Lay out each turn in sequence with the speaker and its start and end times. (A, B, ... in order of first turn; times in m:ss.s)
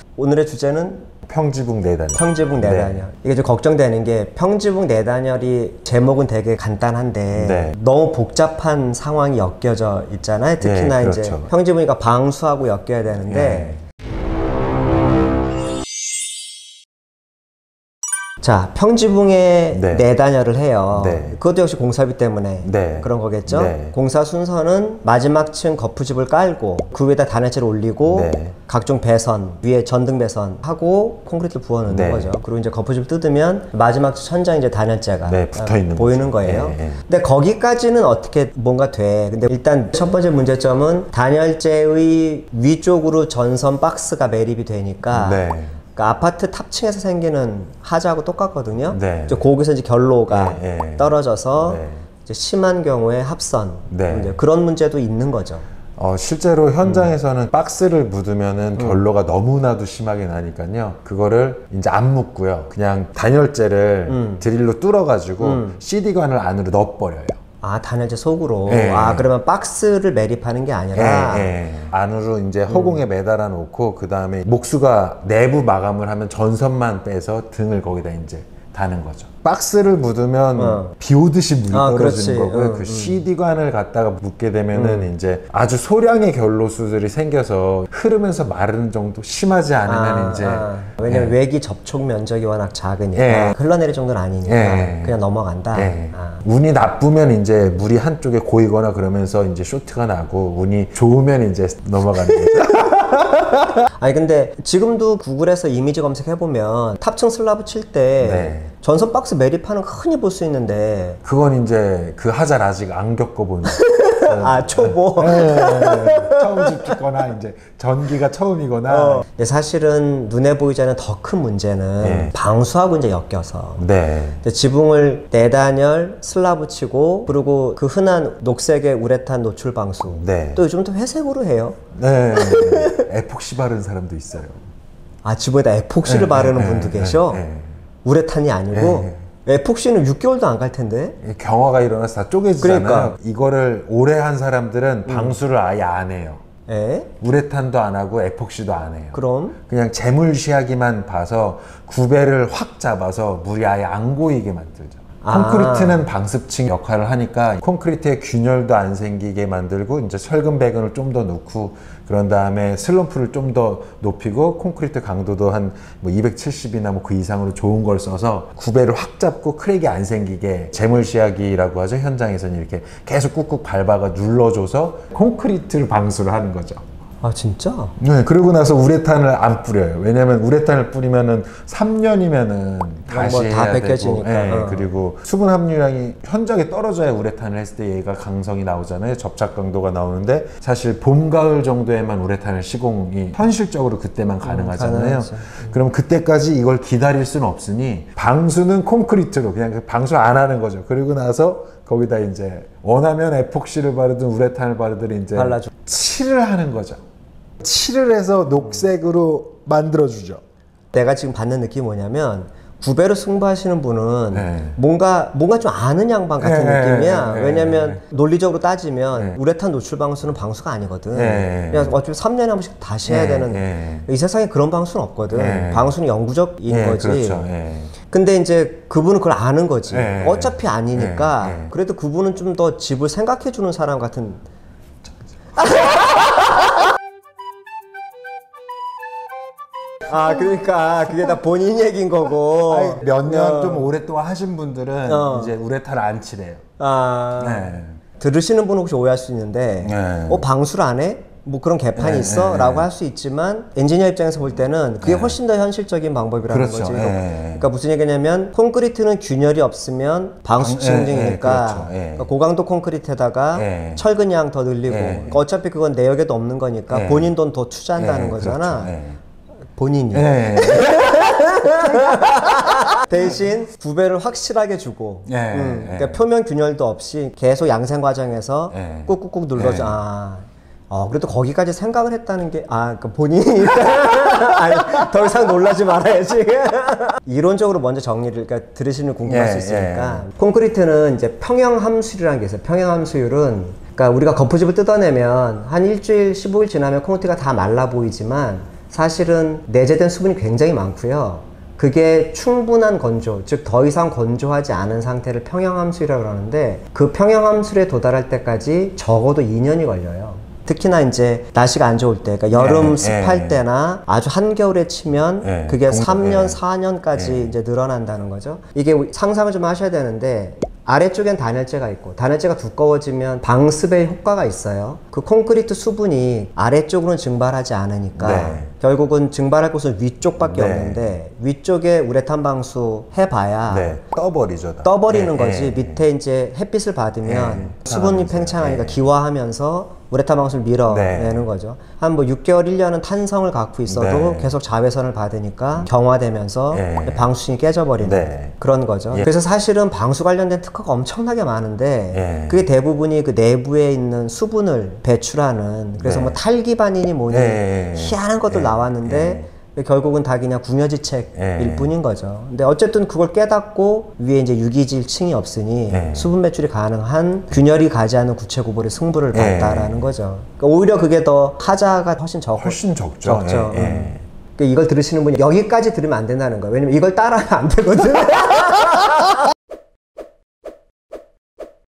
0:00.2-0:01.1 A
0:01.3-0:03.0 B
0:02.1-0:13.8 A
0:07.3-0:07.8 B
0:10.6-0:11.5 B
0:13.3-0:13.8 B
0:18.4-0:55.6 A
0:19.7-0:20.0 B
0:20.9-0:21.4 B
0:22.6-0:24.0 B
0:28.0-0:28.6 B
0:31.9-0:32.3 B
0:35.3-0:37.0 B
0:45.1-0:45.8 B
0:48.9-0:49.4 B
0:50.3-0:52.0 B
0:53.9-0:54.4 B
0:56.0-1:07.4 B
0:56.8-0:57.1 A
1:04.1-1:04.4 A
1:05.4-1:05.8 A
1:07.6-1:11.6 A
1:08.7-1:09.3 B
1:11.0-1:31.3 B
1:12.7-1:13.0 A
1:20.6-1:20.9 A
1:21.7-1:23.2 A
1:24.7-1:25.1 A
1:29.8-1:36.4 A
1:33.2-1:33.6 B
1:34.4-1:35.2 B
1:35.7-1:43.6 B
1:42.3-1:43.2 A
1:43.9-1:51.2 A
1:48.2-1:48.7 B
1:51.2-1:59.2 B
1:53.7-1:57.0 A
1:58.9-2:03.8 A
2:02.0-2:02.3 B
2:03.8-2:04.4 B
2:04.4-2:11.8 A
2:10.1-2:10.6 B
2:12.0-2:14.6 B
2:12.3-2:13.0 A
2:15.2-2:17.4 A
2:16.0-2:17.8 B
2:18.0-2:21.2 A
2:18.7-2:19.2 B
2:21.2-2:26.4 B
2:22.6-2:23.2 A
2:25.1-2:25.4 A
2:26.7-2:27.1 A
2:27.2-2:56.8 B
2:29.1-2:29.6 A
2:35.2-2:36.0 A
2:57.2-2:57.9 A
2:58.0-3:27.0 B
3:03.1-3:04.9 A
3:14.4-3:15.8 A
3:25.3-3:25.7 A
3:27.6-3:30.4 B
3:30.9-3:47.5 A
3:34.3-3:34.8 B
3:36.4-3:38.0 B
3:41.1-3:41.9 B
3:43.1-3:44.1 B
3:45.3-3:45.9 B
3:46.7-3:47.9 B
3:48.1-3:54.4 A
3:49.9-3:51.7 B
3:55.6-3:56.6 A
4:00.1-4:03.9 A
4:02.5-4:06.6 B
4:05.1-4:05.5 A
4:06.8-4:28.9 A
4:07.4-4:08.0 B
4:09.8-4:10.4 B
4:12.0-4:12.9 B
4:15.0-4:15.4 B
4:16.5-4:17.7 B
4:20.6-4:22.3 B
4:23.6-4:24.0 B
4:24.9-4:25.4 B
4:26.9-4:27.3 B
4:28.0-4:29.2 B
4:29.8-5:34.0 A
4:30.1-4:33.2 B
4:35.3-4:36.2 B
4:38.7-4:40.0 B
4:49.2-4:50.2 B
5:12.5-5:13.6 B
5:15.4-5:16.6 B
5:17.1-5:17.5 B
5:28.2-5:28.7 B
5:30.4-5:31.1 B
5:33.7-5:36.0 B
5:34.8-6:19.3 A
5:37.2-5:39.0 B
5:40.9-5:41.4 B
5:43.9-5:44.6 B
5:46.7-5:47.3 B
5:48.0-5:48.5 B
5:52.1-5:52.6 B
5:56.0-5:56.4 B
5:57.3-5:59.5 B
6:01.4-6:01.9 B
6:05.9-6:06.3 B
6:09.3-6:10.1 B
6:12.6-6:14.2 B